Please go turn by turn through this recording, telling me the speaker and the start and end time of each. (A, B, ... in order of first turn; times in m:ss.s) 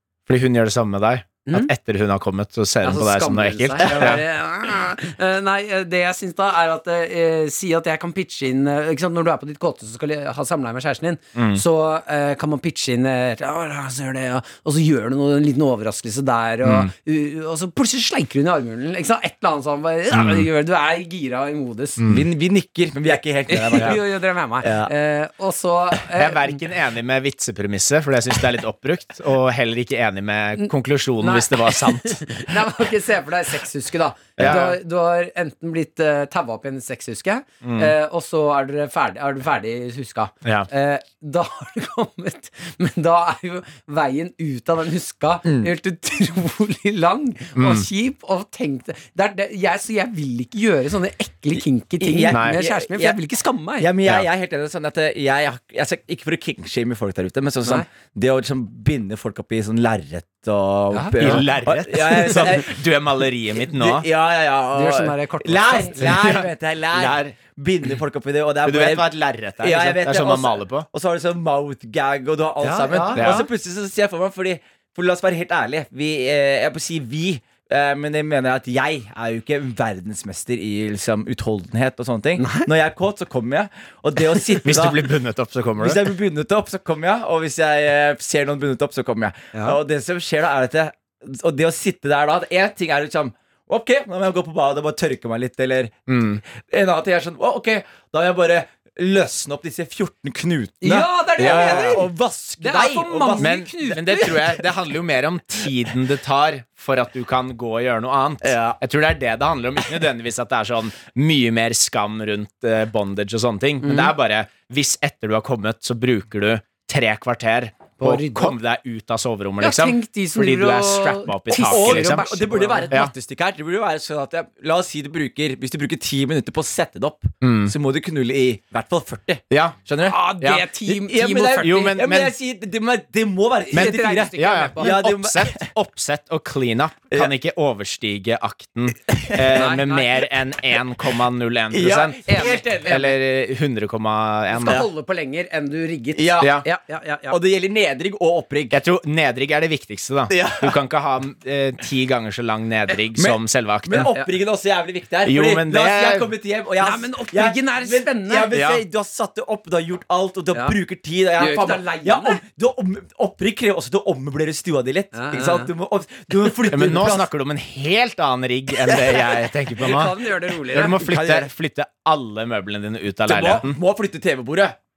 0:00.3-0:04.2 A
0:02.8-0:22.0 B
0:11.4-0:11.6 A
0:16.6-0:16.9 A
0:20.1-0:20.5 A
0:22.0-0:22.3 A
0:22.1-0:24.0 C
0:23.5-0:26.6 B
0:24.6-0:24.9 C
0:26.2-0:32.5 A
0:30.6-0:53.9 B
0:34.4-0:34.8 A
0:37.6-0:37.9 A
0:47.6-0:47.9 A
0:52.0-0:53.2 C
0:52.3-0:52.6 A
0:53.8-1:02.8 C
1:00.9-1:01.6 B
1:01.2-1:04.1 A
1:02.1-1:02.4 B
1:03.7-1:25.1 C
1:04.7-1:06.4 B
1:06.0-1:07.3 A
1:08.6-1:10.9 A
1:12.6-1:13.5 B
1:13.2-1:13.4 A
1:22.4-1:22.7 B
1:24.6-1:26.1 A
1:25.8-1:43.6 C
1:36.1-1:36.4 A
1:40.8-1:42.1 B
1:41.4-1:42.0 A
1:42.6-1:44.6 B
1:43.4-2:02.2 A
1:48.4-1:48.8 C
1:53.8-1:54.1 B
1:58.0-1:58.6 B
1:59.6-2:02.9 B
2:01.6-2:10.2 C
2:07.4-2:07.7 A
2:09.5-2:09.8 A
2:10.0-2:12.0 B
2:10.4-2:10.7 A
2:10.9-2:15.7 C
2:11.6-2:12.3 A
2:13.7-2:15.0 B
2:13.7-2:24.8 A
2:19.1-2:19.6 C
2:19.5-2:20.2 B
2:21.7-2:22.7 C
2:22.3-2:23.2 B
2:24.5-2:27.4 B
2:26.2-2:26.6 C
2:27.3-2:28.8 C
2:28.7-2:34.1 A
2:30.3-2:30.8 C
2:33.2-2:47.3 C
2:34.0-2:34.3 B
2:35.2-2:36.3 A
2:36.8-2:38.7 B
2:41.4-2:42.4 B
2:45.1-2:45.7 B
2:46.7-2:50.2 A
2:49.8-2:51.0 B
2:50.7-2:53.8 A
2:50.8-2:51.5 C
2:53.3-2:54.8 C